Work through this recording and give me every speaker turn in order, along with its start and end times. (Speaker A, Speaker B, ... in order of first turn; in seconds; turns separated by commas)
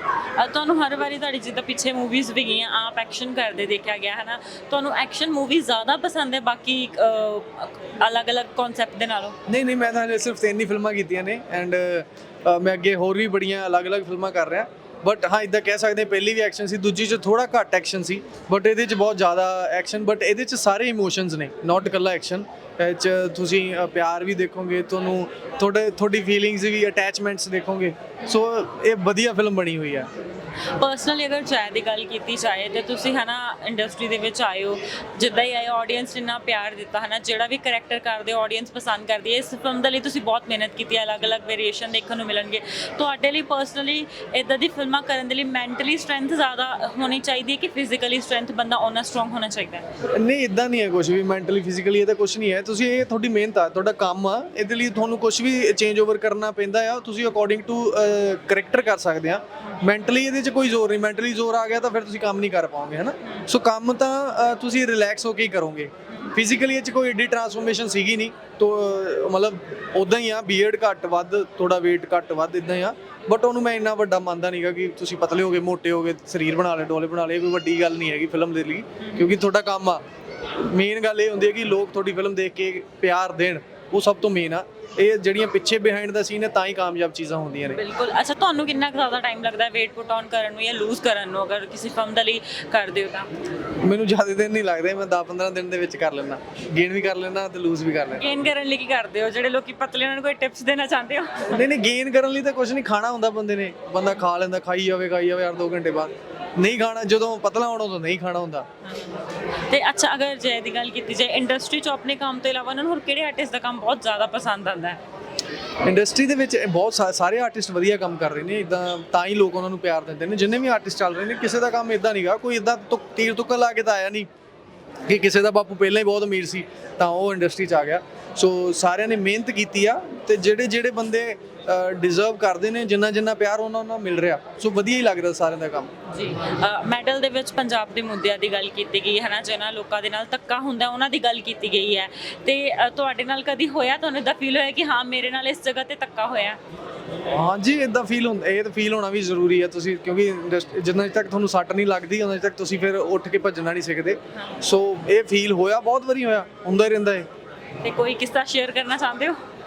Speaker A: 0.3-9.4, Speaker B: 9.5-30.1, Speaker A: 30.8-49.9, Speaker B: 50.1-80.0, Speaker A: 79.0-79.3, Speaker B: 80.6-87.8, Speaker A: 87.7-93.3, Speaker B: 93.8-98.3, Speaker A: 98.1-101.7, Speaker B: 101.5-108.7, Speaker A: 109.7-115.0, Speaker B: 115.8-124.3, Speaker B: 125.1-135.9, Speaker A: 136.1-146.6, Speaker B: 147.3-157.3, Speaker A: 157.8-159.4